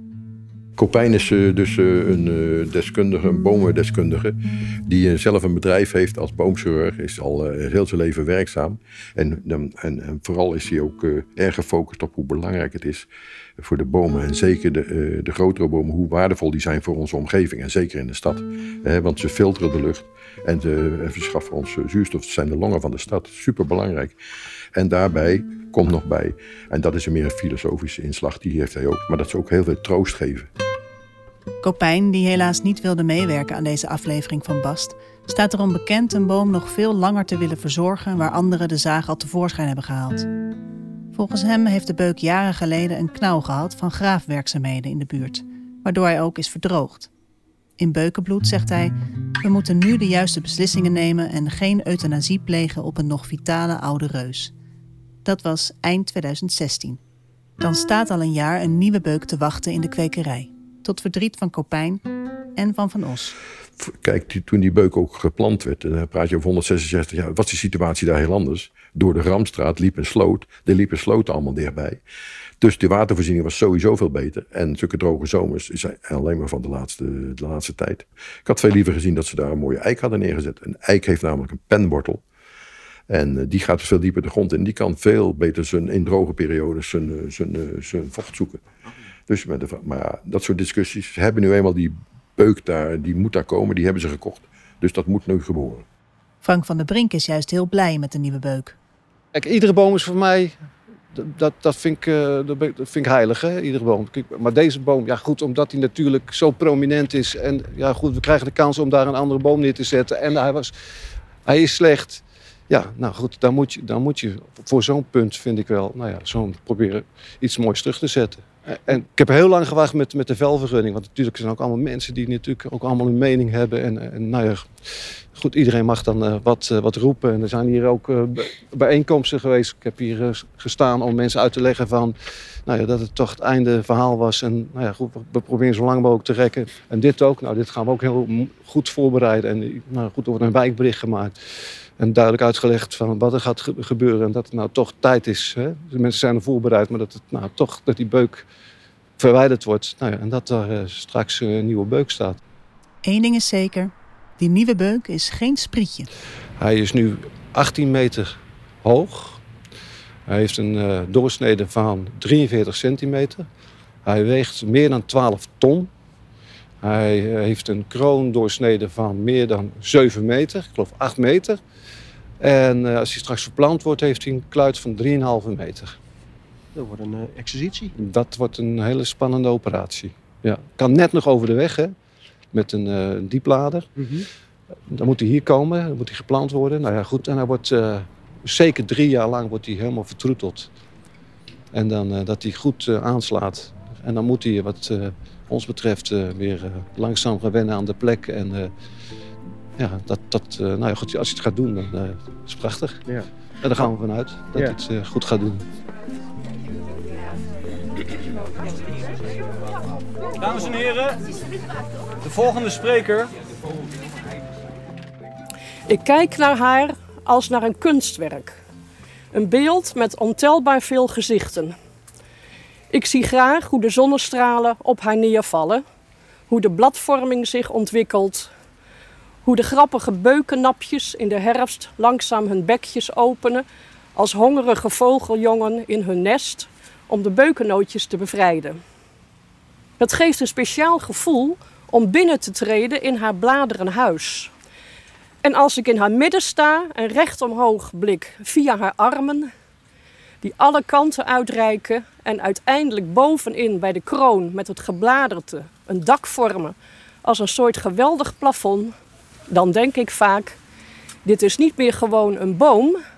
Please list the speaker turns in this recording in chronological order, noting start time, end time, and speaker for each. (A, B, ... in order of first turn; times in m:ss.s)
0:00.8-0:24.2 A
0:24.7-0:30.5 A
0:31.6-0:40.3 B
0:41.1-0:47.1 B
0:47.8-0:54.5 B
0:55.2-0:57.0 B
0:57.6-1:02.0 B
1:02.6-1:03.4 B
1:03.8-1:12.0 A
1:12.6-1:22.2 A
1:23.1-1:28.6 A
1:29.3-1:35.8 A
1:36.4-1:38.8 B
1:39.3-1:40.5 C
1:41.1-1:50.7 C
1:51.4-2:12.1 C
2:12.6-2:21.4 C
2:22.0-2:28.4 C
2:29.2-2:32.4 C
2:33.0-2:36.1 B
2:36.6-2:39.4 C
2:40.3-2:43.4 C
2:44.0-2:45.9 C
2:46.8-2:51.6 C
2:52.4-2:56.0 C
2:56.7-2:57.9 D
2:58.0-3:01.9 C
3:02.5-3:03.9 C
3:04.0-3:04.2 D
3:04.9-3:10.7 C
3:11.7-3:18.7 C
3:19.8-3:23.0 C
3:23.0-3:23.9 D
3:23.6-3:25.6 C
3:30.4-3:31.2 E
3:32.2-3:33.3 E
3:35.9-3:38.6 F
3:39.3-3:41.8 F
3:42.9-3:45.8 F
3:46.5-3:48.5 F
3:49.4-3:58.8 F
4:00.0-4:04.5 F
4:05.4-4:09.5 F
4:10.4-4:18.9 F
4:19.5-4:20.6 F
4:21.2-4:23.0 F